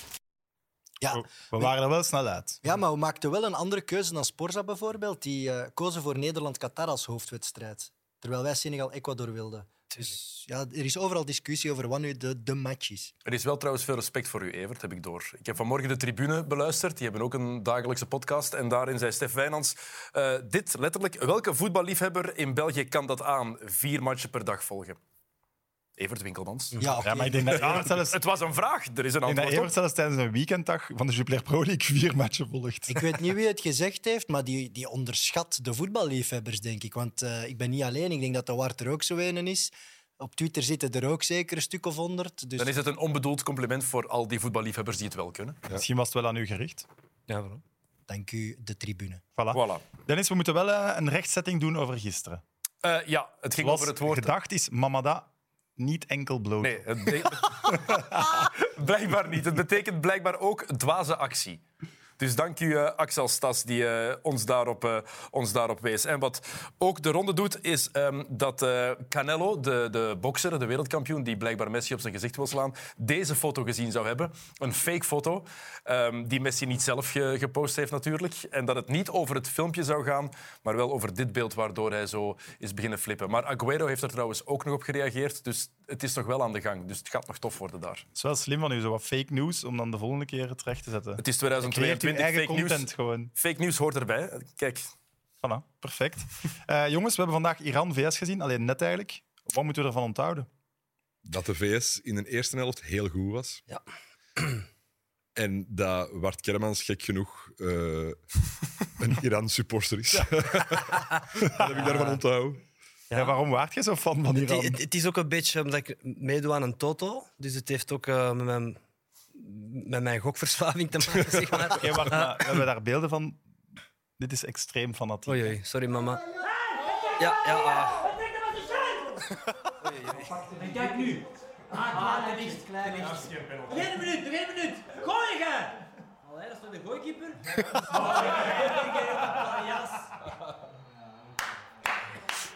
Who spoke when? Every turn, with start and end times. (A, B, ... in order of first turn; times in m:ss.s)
0:01.0-0:01.7 A
0:01.1-0:02.6 B
0:02.6-0:13.1 A
0:13.2-0:25.0 C
0:26.0-0:26.8 C
0:26.8-0:27.9 A
0:27.0-0:28.2 B
0:27.5-0:29.7 C
0:29.3-0:33.0 B
0:32.9-0:42.8 A
0:42.6-0:45.7 C
0:45.7-0:46.9 B
0:47.3-0:47.6 D
0:48.1-0:49.2 A
0:49.4-0:52.4 B
0:49.5-0:49.8 C
0:52.8-0:54.3 C
0:53.6-0:57.1 B
0:56.6-1:01.6 C
0:57.8-0:58.2 B
1:02.2-1:28.0 C
1:28.2-1:33.3 B
1:31.2-1:34.9 C
1:35.4-1:40.5 B
1:41.2-1:43.6 E
1:45.4-1:48.2 E
1:48.9-1:52.6 E
1:53.1-1:53.4 D
1:53.1-1:54.8 B
1:54.3-1:58.8 D
1:59.4-2:02.6 D
2:01.2-2:01.7 E
2:01.7-2:03.4 B
2:04.2-2:05.6 B
2:05.3-2:06.2 D
2:06.5-2:09.2 F
2:07.2-2:08.1 D
2:09.8-2:10.4 D
2:10.4-2:13.2 F
2:12.8-2:14.0 C
2:13.7-2:15.8 F
2:16.3-2:17.2 F
2:16.4-2:17.4 D
2:17.6-2:18.1 A
2:17.9-2:20.1 F